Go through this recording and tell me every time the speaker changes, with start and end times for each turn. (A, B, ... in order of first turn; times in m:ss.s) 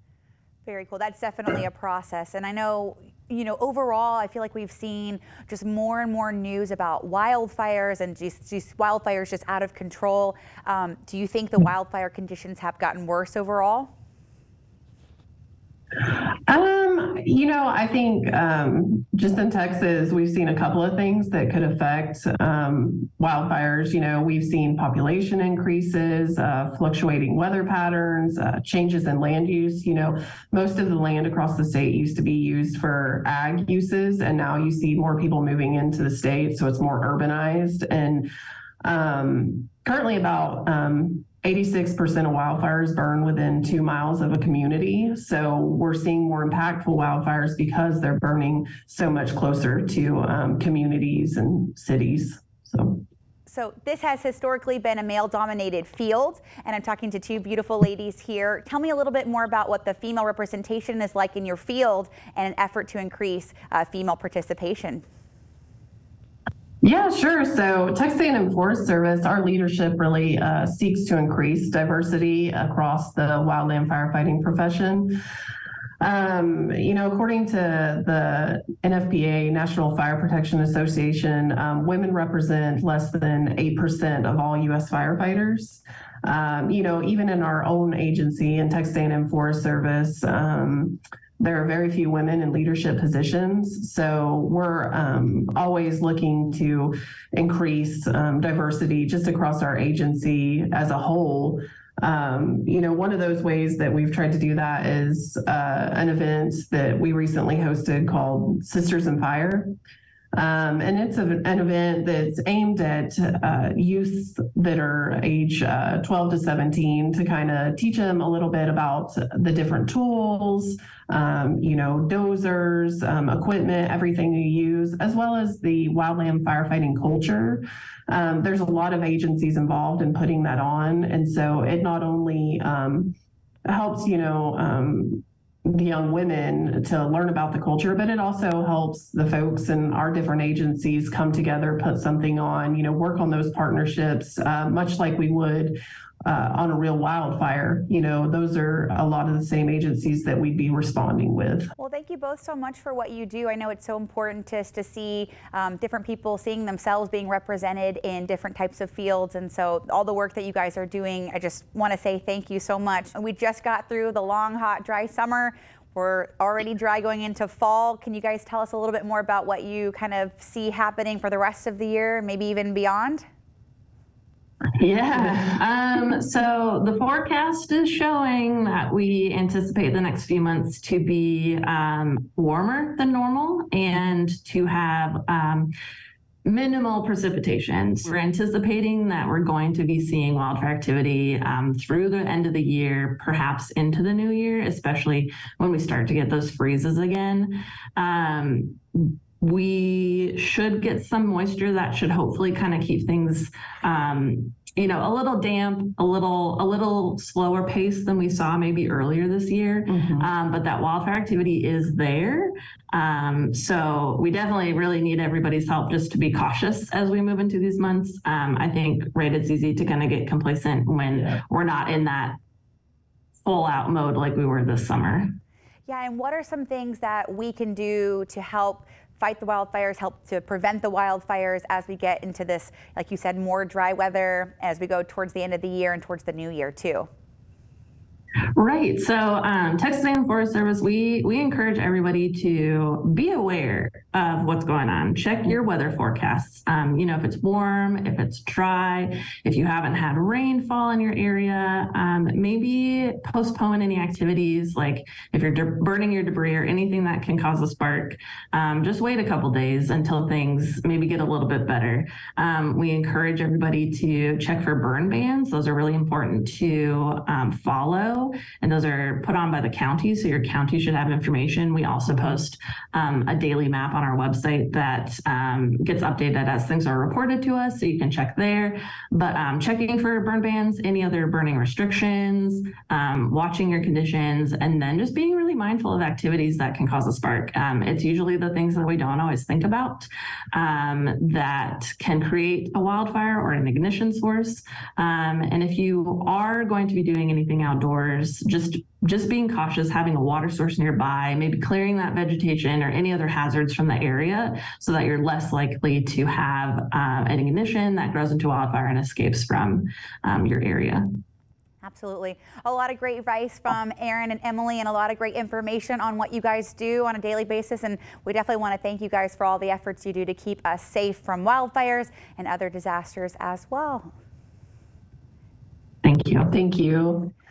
0:00.6-0:13.9 A
0:16.5-0:38.3 B
0:38.8-0:53.0 B
0:53.5-1:05.0 A
1:06.8-1:15.2 B
1:16.0-1:49.7 B
1:50.3-2:13.1 B
2:13.7-2:31.7 B
2:31.8-2:53.2 A
2:54.8-3:05.7 C
3:06.4-3:42.4 C
3:29.9-3:30.3 B
3:43.4-3:45.4 C
3:45.9-3:57.1 A
3:58.6-5:11.0 C
5:11.8-5:24.1 A
5:26.0-5:26.5 C
5:26.5-5:27.3 B